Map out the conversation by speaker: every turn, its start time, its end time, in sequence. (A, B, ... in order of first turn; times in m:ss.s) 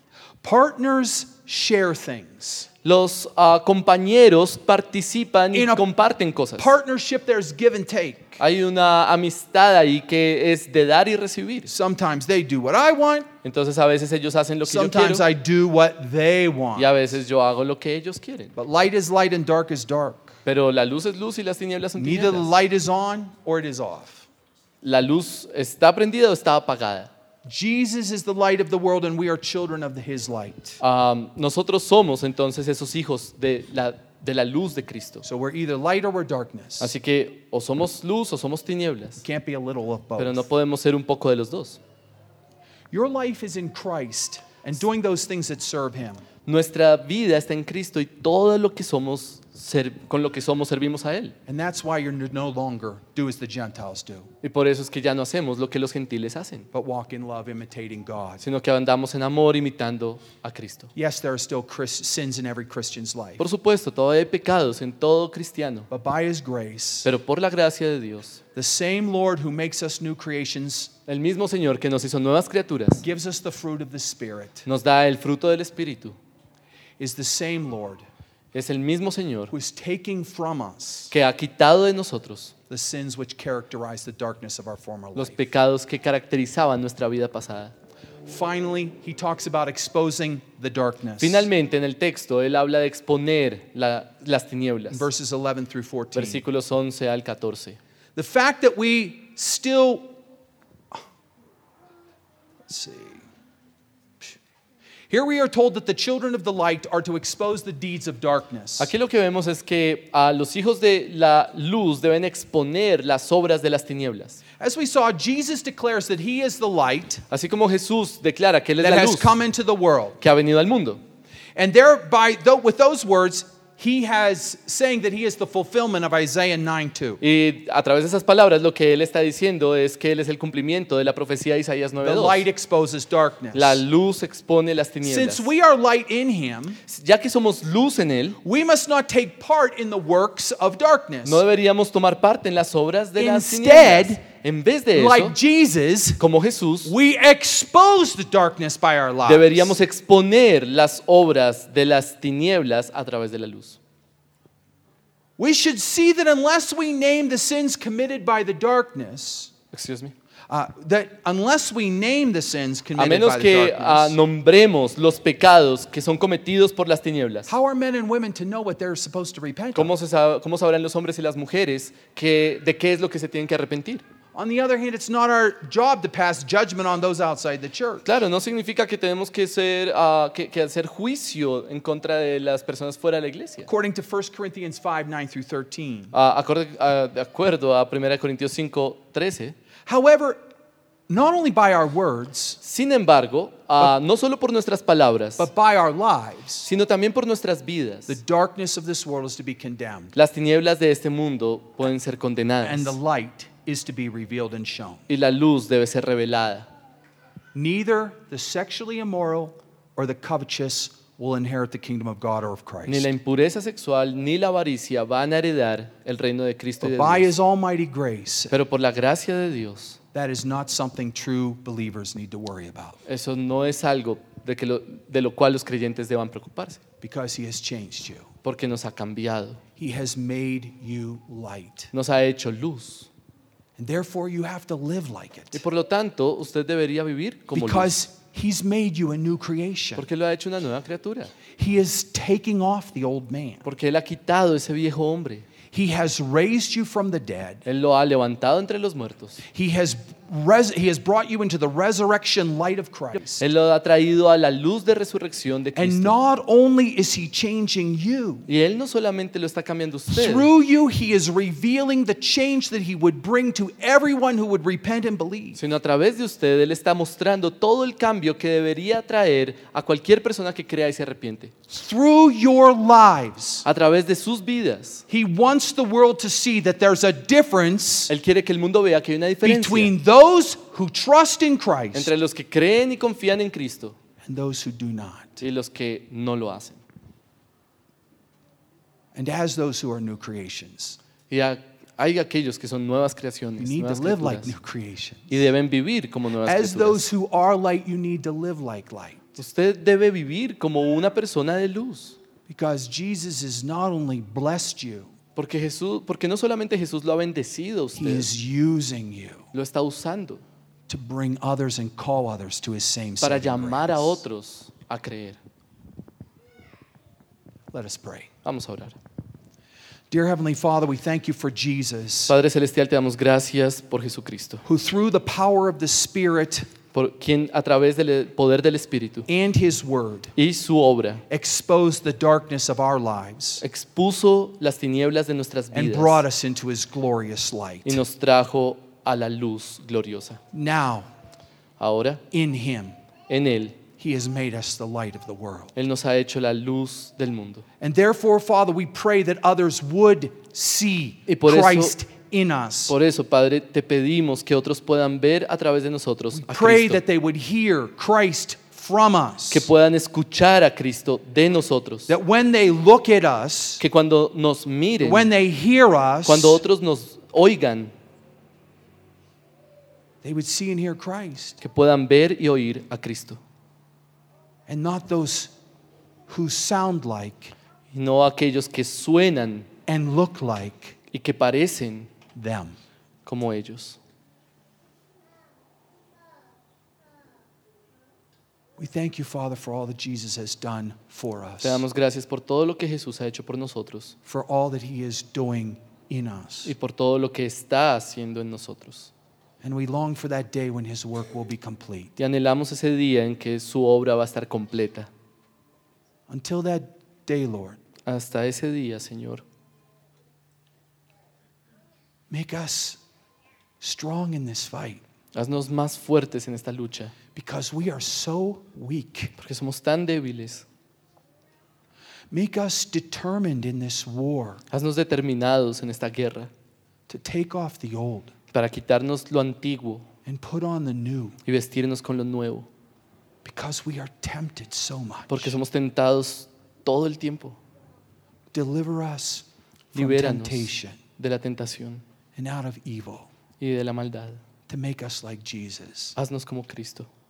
0:00.4-0:02.7 A
0:02.8-0:06.7 B
0:05.5-0:05.8 A
0:06.6-0:08.4 A
0:08.4-0:11.7 B
0:11.6-0:13.3 A
0:13.4-0:15.2 B
0:14.7-0:16.9 A
0:16.8-0:18.5 B
0:18.6-0:20.4 A
0:20.4-0:22.5 B
0:22.0-0:24.2 A
0:24.8-0:27.1 B
0:27.4-0:30.8 A
0:30.8-0:35.2 B
0:35.2-0:36.9 A
0:36.8-0:39.2 B
0:39.2-0:40.4 A
0:40.2-0:41.8 B
0:42.9-0:46.2 A
0:46.4-0:51.3 B
0:51.5-0:54.3 A
0:54.4-0:56.7 B
0:56.7-0:58.4 A
0:58.4-1:00.9 B
1:01.0-1:03.4 A
1:03.4-1:05.9 B
1:05.9-1:07.1 A
1:07.0-1:08.4 B
1:08.5-1:10.9 A
1:11.1-1:13.0 B
1:13.0-1:14.6 A
1:14.6-1:16.2 B
1:17.0-1:18.0 A
1:18.5-1:19.5 B
1:19.5-1:21.1 A
1:21.1-1:22.5 B
1:22.7-1:25.4 A
1:25.1-1:27.7 B
1:28.2-1:31.5 A
1:31.2-1:35.0 B
1:34.9-1:36.4 A
1:36.1-1:37.8 B
1:38.2-1:40.1 A
1:42.7-1:43.2 A
1:45.1-1:48.9 A
1:48.8-1:54.4 B
1:54.6-1:57.2 A
1:57.3-1:59.4 B
1:58.8-2:00.2 A
2:00.2-2:01.0 B
2:01.6-2:07.2 A
2:07.2-2:12.4 B
2:12.0-2:13.8 A
2:13.5-2:15.5 B
2:15.0-2:16.8 A
2:16.9-2:18.4 B
2:18.4-2:21.4 A
2:21.2-2:25.3 B
2:23.2-2:24.2 A
2:24.9-2:26.2 A
2:26.2-2:26.9 B
2:26.8-2:29.7 A
2:29.2-2:33.8 B
2:35.4-2:39.5 A
2:39.7-2:40.1 B
2:40.5-2:44.2 A
2:43.0-2:47.5 B
2:47.5-2:49.9 A
2:49.7-2:54.0 B
2:54.3-2:58.0 A
2:58.0-3:03.7 B
3:03.6-3:06.1 A
3:06.1-3:09.6 B
3:09.8-3:10.4 A
3:11.1-3:12.6 A
3:12.6-3:15.5 B
3:15.4-3:16.7 A
3:16.6-3:18.2 B
3:18.1-3:20.1 A
3:20.1-3:23.0 B
3:22.6-3:25.0 A
3:25.1-3:26.7 B
3:27.5-3:33.1 A
3:32.8-3:37.3 B
3:36.8-3:38.6 A
3:38.5-3:40.0 B
3:40.1-3:43.0 A
3:43.0-3:46.8 B
3:47.0-3:48.3 A
3:48.4-3:49.6 B
3:49.8-3:51.9 A
3:51.9-3:53.1 B
3:53.8-3:55.6 A
3:55.5-3:57.9 B
3:57.5-4:00.0 A
4:00.0-4:01.3 B
4:01.6-4:03.6 A
4:03.6-4:05.4 B
4:05.7-4:07.6 A
4:07.6-4:09.4 B
4:09.5-4:13.4 A
4:13.4-4:16.1 B
4:15.8-4:18.5 A
4:18.5-4:20.5 B
4:20.1-4:25.6 A
4:25.6-4:31.5 B
4:31.7-4:33.6 A
4:33.6-4:35.0 B
4:35.1-4:38.1 A
4:38.1-4:39.9 B
4:39.4-4:42.1 A
4:41.9-4:44.0 B
4:44.2-4:45.4 A
4:45.4-4:46.8 B
4:49.1-4:51.0 A
4:51.3-4:54.5 B
4:53.6-4:55.3 A
4:55.3-4:57.1 B
4:56.4-4:59.4 A
4:59.4-5:02.2 B
5:02.5-5:05.1 A
5:05.4-5:08.3 B
5:08.0-5:09.5 A
5:09.5-5:10.4 B
5:10.9-5:14.2 A
5:13.2-5:15.4 B
5:17.7-5:18.3 A
5:18.4-5:19.0 B
5:20.1-5:22.3 A
5:22.3-5:24.6 B
5:24.6-5:26.6 A
5:26.9-5:29.3 B
5:29.3-5:30.3 A
5:30.4-5:31.2 B
5:31.3-5:33.6 A
5:33.6-5:36.2 B
5:35.7-5:38.0 A
5:37.8-5:40.4 B
5:40.5-5:41.1 A
5:41.8-5:42.2 B
5:42.3-5:42.9 A
5:43.3-5:43.8 B
5:44.0-5:45.7 A
5:45.8-5:47.6 B
5:47.8-5:52.9 A
5:51.3-5:51.9 B
5:52.9-5:57.0 B
5:56.3-5:59.7 A
5:59.5-6:02.1 B
6:02.1-6:03.8 A
6:03.8-6:05.3 B
6:05.0-6:06.6 A
6:06.2-6:07.9 B
6:10.2-6:11.6 A
6:11.6-6:13.4 B
6:14.7-6:15.5 A
6:16.3-6:17.5 A
6:17.9-6:19.7 B
6:19.9-6:21.0 A
6:21.1-6:22.1 B
6:22.4-6:22.8 A
6:23.2-6:24.0 B
6:28.8-6:31.8 A
6:31.6-6:34.2 B
6:34.2-6:36.7 A
6:36.6-6:39.1 B
6:39.6-6:42.1 A
6:42.2-6:45.1 B
6:46.3-6:47.8 A
6:48.0-6:49.4 B
6:52.3-6:53.0 A
6:53.8-6:55.0 A
6:55.3-6:57.1 B
6:57.3-6:59.3 A
6:59.4-7:00.6 B
7:02.3-7:04.6 A
7:04.7-7:06.5 B
7:07.1-7:08.3 A
7:08.5-7:10.0 B
7:10.2-7:11.4 A
7:11.4-7:12.7 B
7:13.4-7:15.6 A
7:15.3-7:17.6 B
7:18.5-7:21.0 A
7:19.9-7:22.0 B
7:22.4-7:23.3 A
7:23.6-7:24.4 B
7:24.7-7:26.2 A
7:26.2-7:27.1 B